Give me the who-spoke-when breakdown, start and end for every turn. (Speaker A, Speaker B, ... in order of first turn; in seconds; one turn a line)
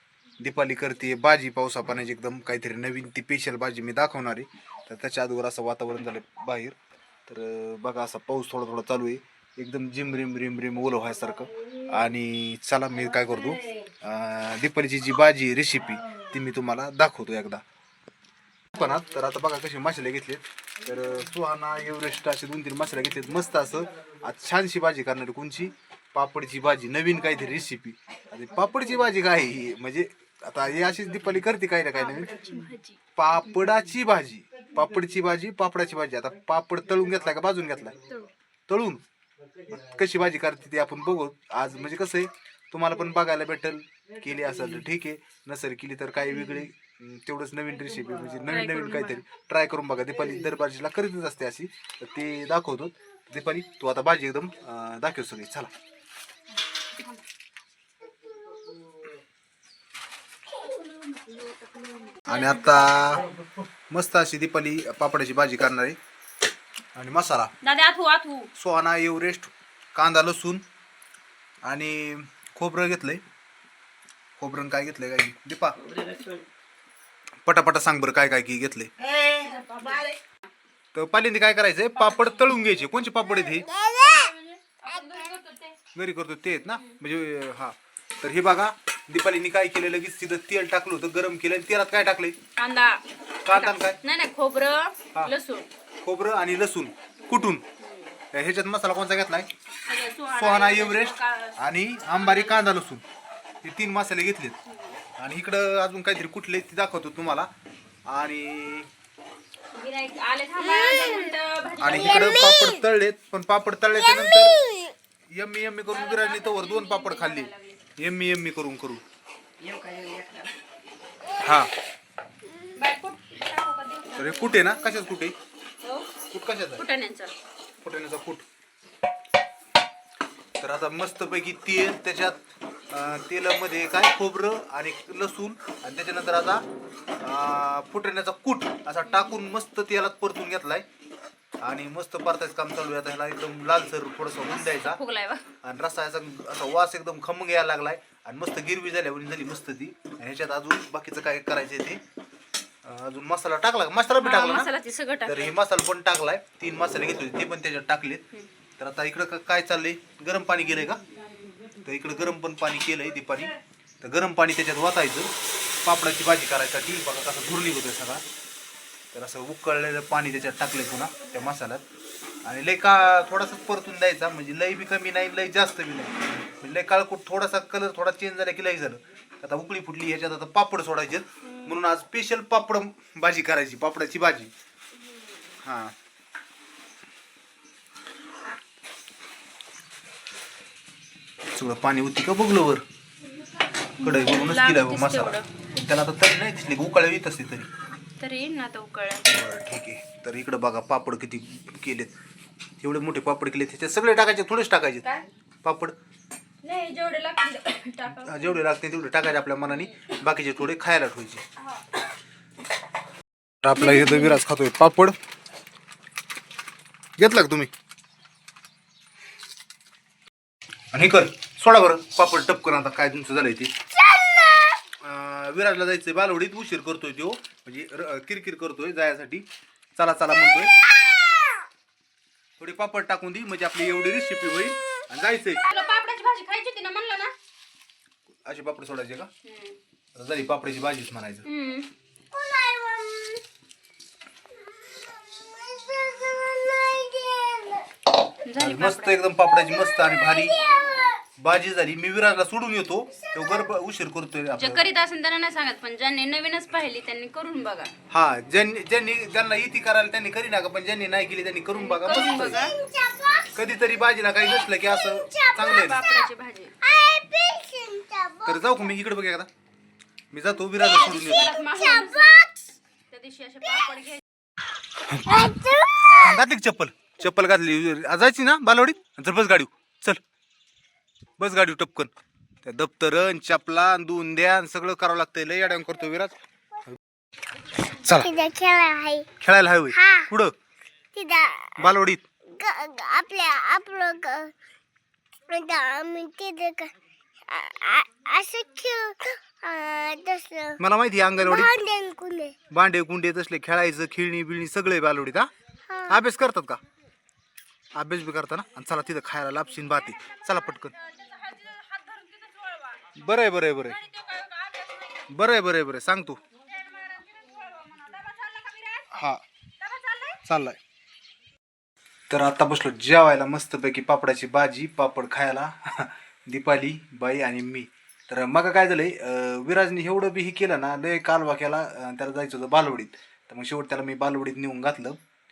Speaker A: 0.4-17.6
Speaker B: 13.2-13.6
Speaker A: 18.7-32.3
Speaker B: 31.9-33.6
Speaker A: 33.2-38.0
Speaker A: 38.7-39.0
Speaker A: 39.7-55.7
Speaker B: 48.5-49.2
Speaker B: 60.6-63.3
Speaker A: 62.3-63.3
Speaker A: 63.9-66.0
Speaker A: 66.9-67.5
Speaker B: 67.6-68.5
Speaker A: 68.5-70.6
Speaker A: 71.6-73.2
Speaker A: 74.4-75.8
Speaker A: 77.4-78.9
Speaker B: 79.2-80.2
Speaker A: 80.9-83.7
Speaker B: 82.0-82.4
Speaker C: 83.6-84.3
Speaker B: 83.8-85.8
Speaker C: 84.9-85.2
Speaker A: 85.9-92.4
Speaker B: 92.6-95.7
Speaker A: 93.4-94.0
Speaker A: 96.0-97.6
Speaker B: 97.8-98.1
Speaker A: 98.3-99.5
Speaker B: 99.9-102.6
Speaker A: 100.3-103.0
Speaker A: 103.6-104.6
Speaker B: 104.7-105.0
Speaker A: 105.2-107.5
Speaker A: 108.1-108.9
Speaker B: 109.7-112.4
Speaker A: 111.8-114.7
Speaker C: 112.1-112.7
Speaker C: 114.2-114.8
Speaker A: 115.3-119.0
Speaker B: 115.9-117.8
Speaker B: 119.6-120.5
Speaker A: 121.4-121.7
Speaker B: 122.8-124.9
Speaker A: 124.2-125.4
Speaker B: 125.8-126.1
Speaker A: 126.3-126.8
Speaker B: 126.7-127.3
Speaker A: 127.8-128.4
Speaker A: 130.6-136.6
Speaker A: 137.2-140.9
Speaker A: 141.6-145.0
Speaker B: 144.4-145.4
Speaker A: 145.6-152.0
Speaker A: 152.8-154.7
Speaker B: 154.2-155.5
Speaker A: 155.2-158.2
Speaker A: 158.8-161.0
Speaker B: 161.0-161.8
Speaker A: 161.8-165.3
Speaker A: 165.8-168.2
Speaker A: 169.1-171.8
Speaker A: 172.4-184.5
Speaker A: 185.6-185.9
Speaker A: 191.5-192.8
Speaker B: 194.0-195.5
Speaker A: 194.0-197.7
Speaker B: 198.2-199.3
Speaker A: 199.3-202.1
Speaker A: 202.8-205.1
Speaker A: 205.6-205.9
Speaker B: 206.6-208.6
Speaker A: 208.1-211.4
Speaker A: 213.6-215.2
Speaker B: 213.8-214.4
Speaker A: 217.2-217.7
Speaker A: 220.9-223.7
Speaker C: 224.1-224.7
Speaker A: 225.0-230.8
Speaker A: 232.6-235.6
Speaker B: 235.7-237.3
Speaker A: 238.4-239.3
Speaker B: 239.4-239.8
Speaker A: 240.2-241.5
Speaker B: 241.4-241.9
Speaker C: 242.3-243.4
Speaker C: 244.7-247.9
Speaker B: 248.4-249.2
Speaker A: 248.6-250.6
Speaker C: 249.8-251.2
Speaker A: 251.4-254.9
Speaker B: 254.6-257.9
Speaker A: 258.1-262.6
Speaker B: 261.8-262.8
Speaker C: 262.1-263.9
Speaker A: 263.6-266.0
Speaker C: 264.4-266.3
Speaker B: 265.6-266.8
Speaker C: 266.8-268.8
Speaker A: 268.4-269.5
Speaker A: 270.3-271.5
Speaker B: 270.8-272.4
Speaker C: 271.7-272.6
Speaker B: 273.1-274.2
Speaker A: 275.0-275.5
Speaker C: 275.2-276.4
Speaker A: 276.1-280.2
Speaker A: 281.4-282.1
Speaker A: 282.6-286.4
Speaker A: 287.9-288.3
Speaker C: 288.1-289.3
Speaker A: 289.4-290.5
Speaker C: 290.0-290.3
Speaker C: 291.1-291.8
Speaker A: 291.8-292.2
Speaker C: 292.5-294.5
Speaker C: 295.5-296.9
Speaker C: 297.5-300.8
Speaker A: 300.8-301.7
Speaker C: 301.4-302.6
Speaker A: 302.7-305.5
Speaker C: 305.9-306.2
Speaker A: 306.1-306.8
Speaker A: 307.9-310.9
Speaker B: 311.0-313.1
Speaker A: 313.2-314.0
Speaker B: 313.9-315.2
Speaker A: 315.3-316.4
Speaker B: 316.7-319.1
Speaker A: 319.1-319.4
Speaker B: 319.8-320.4
Speaker A: 320.4-320.8
Speaker A: 322.3-335.2